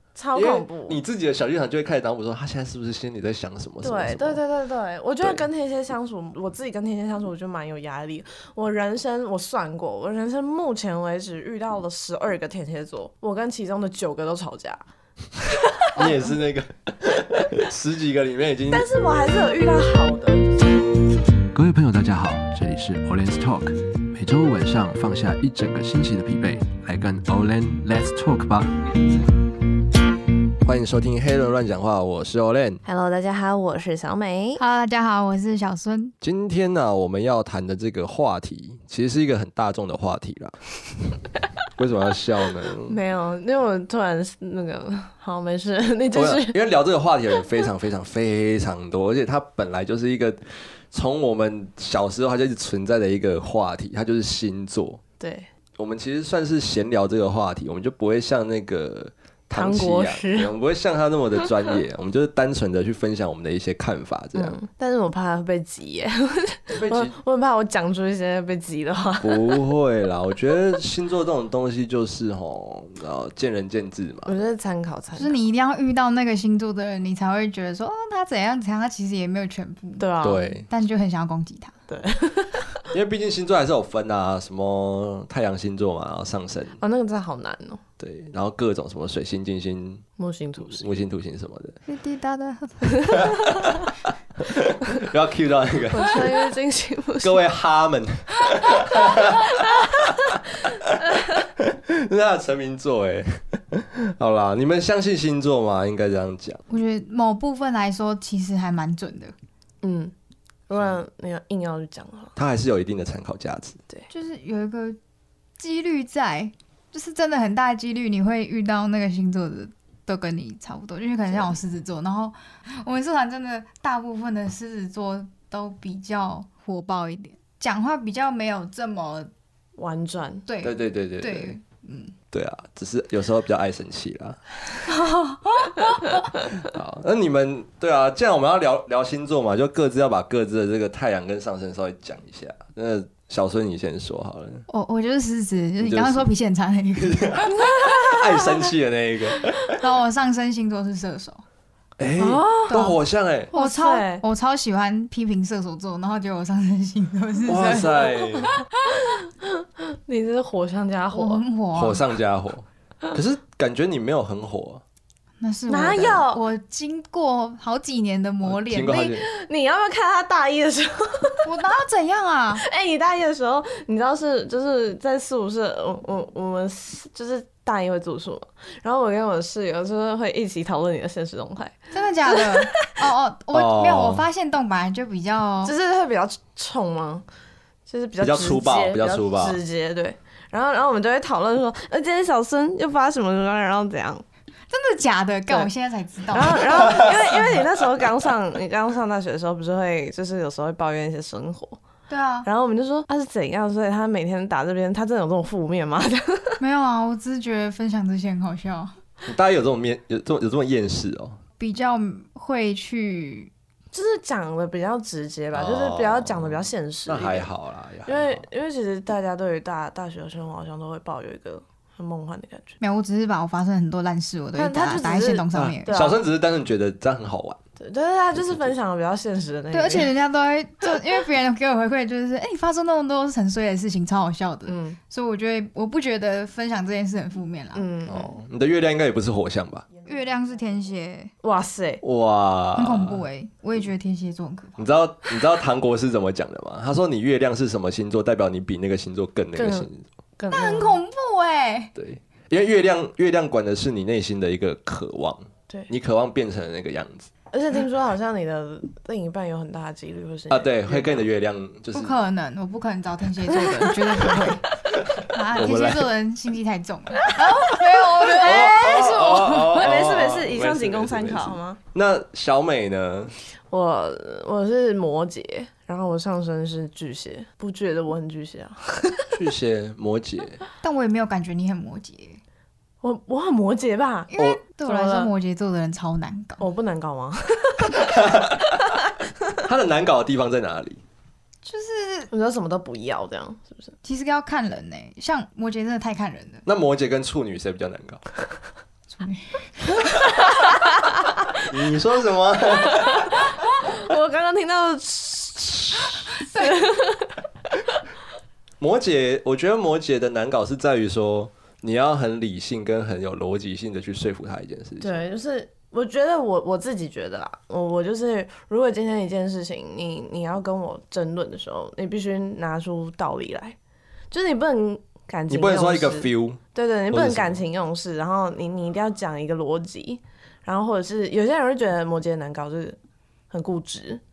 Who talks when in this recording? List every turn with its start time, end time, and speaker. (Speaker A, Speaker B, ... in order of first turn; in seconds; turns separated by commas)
Speaker A: 0.1-1.0, Speaker B: 0.3-4.4, Speaker A: 3.8-14.8, Speaker B: 5.2-5.5, Speaker A: 15.4-16.1, Speaker B: 15.9-18.9, Speaker A: 18.7-20.9, Speaker B: 21.5-28.7, Speaker B: 30.6-32.8, Speaker A: 32.8-34.6, Speaker C: 34.6-36.1, Speaker B: 36.2-40.6, Speaker B: 41.8-43.0, Speaker A: 42.8-46.6, Speaker B: 46.1-55.0, Speaker A: 55.2-55.5, Speaker B: 55.8-64.6, Speaker A: 59.5-60.5, Speaker A: 64.3-69.7, Speaker B: 66.7-67.2, Speaker B: 69.2-74.4, Speaker A: 74.2-75.3, Speaker C: 75.1-81.7, Speaker A: 80.0-80.4, Speaker B: 80.2-80.7, Speaker A: 81.9-82.7, Speaker B: 82.9-86.8, Speaker A: 86.8-87.8, Speaker B: 88.0-90.0, Speaker A: 90.2-90.8, Speaker B: 90.7-91.8, Speaker C: 91.9-93.3, Speaker B: 93.1-96.3, Speaker A: 95.9-97.4, Speaker B: 97.2-101.0, Speaker B: 101.6-106.6, Speaker C: 106.7-109.3, Speaker A: 109.8-110.1, Speaker A: 110.7-112.3, Speaker B: 112.3-113.8, Speaker C: 114.1-115.0, Speaker C: 115.6-129.3, Speaker A: 129.8-130.5, Speaker C: 130.5-132.1, Speaker B: 130.6-131.5, Speaker B: 132.3-134.4, Speaker C: 134.9-136.3, Speaker B: 136.6-144.7, Speaker C: 144.7-148.5, Speaker B: 145.8-146.2, Speaker B: 147.0-149.8, Speaker C: 149.7-151.4, Speaker B: 152.0-153.5, Speaker A: 152.2-152.9, Speaker C: 152.7-153.0, Speaker A: 153.5-154.2, Speaker C: 153.5-159.0, Speaker B: 157.5-158.5, Speaker A: 159.1-161.4, Speaker C: 161.1-162.0, Speaker B: 161.7-164.8, Speaker C: 165.4-169.2, Speaker A: 165.7-166.4, Speaker B: 168.4-169.2, Speaker A: 169.2-171.5, Speaker C: 171.4-172.7, Speaker A: 172.6-182.9, Speaker C: 181.9-185.7, Speaker B: 183.5-184.2, Speaker A: 185.6-187.2, Speaker A: 187.9-194.2, Speaker B: 188.2-189.6, Speaker C: 194.7-197.1, Speaker A: 196.3-201.8, Speaker B: 197.1-197.4, Speaker C: 202.1-202.5, Speaker A: 202.4-206.6, Speaker C: 206.6-208.9, Speaker B: 209.2-211.4, Speaker C: 211.6-213.5, Speaker A: 213.9-217.5, Speaker B: 215.5-218.4, Speaker A: 218.1-222.8, Speaker C: 222.8-225.9, Speaker A: 224.6-226.2, Speaker B: 225.5-227.6, Speaker A: 227.8-230.1, Speaker B: 228.3-228.7, Speaker C: 229.7-237.9, Speaker A: 234.7-235.0, Speaker A: 237.7-238.4, Speaker B: 238.1-239.8, Speaker C: 240.0-241.3, Speaker A: 241.4-242.0, Speaker B: 242.0-243.2, Speaker C: 242.8-244.9, Speaker B: 244.8-250.0, Speaker A: 249.5-249.9, Speaker A: 250.4-251.0, Speaker C: 250.5-251.9, Speaker B: 251.9-257.3, Speaker A: 257.5-261.3, Speaker B: 260.5-262.1, Speaker C: 261.9-264.7, Speaker A: 263.5-264.4, Speaker C: 265.3-269.1, Speaker B: 265.5-266.1, Speaker A: 267.6-271.8, Speaker B: 268.3-273.3, Speaker A: 273.7-279.3, Speaker B: 279.3-280.6, Speaker C: 280.8-282.4, Speaker A: 283.0-285.3, Speaker C: 284.3-286.6, Speaker A: 286.6-288.1, Speaker B: 288.0-288.7, Speaker B: 289.6-291.0, Speaker C: 291.6-292.3, Speaker A: 292.3-293.9, Speaker C: 294.0-296.6, Speaker B: 296.6-298.2, Speaker C: 299.1-300.3, Speaker B: 301.6-303.5, Speaker A: 302.9-307.4, Speaker C: 306.3-306.9, Speaker B: 308.8-315.2, Speaker A: 315.0-323.8, Speaker A: 324.3-333.0, Speaker B: 325.5-327.6, Speaker A: 333.5-334.2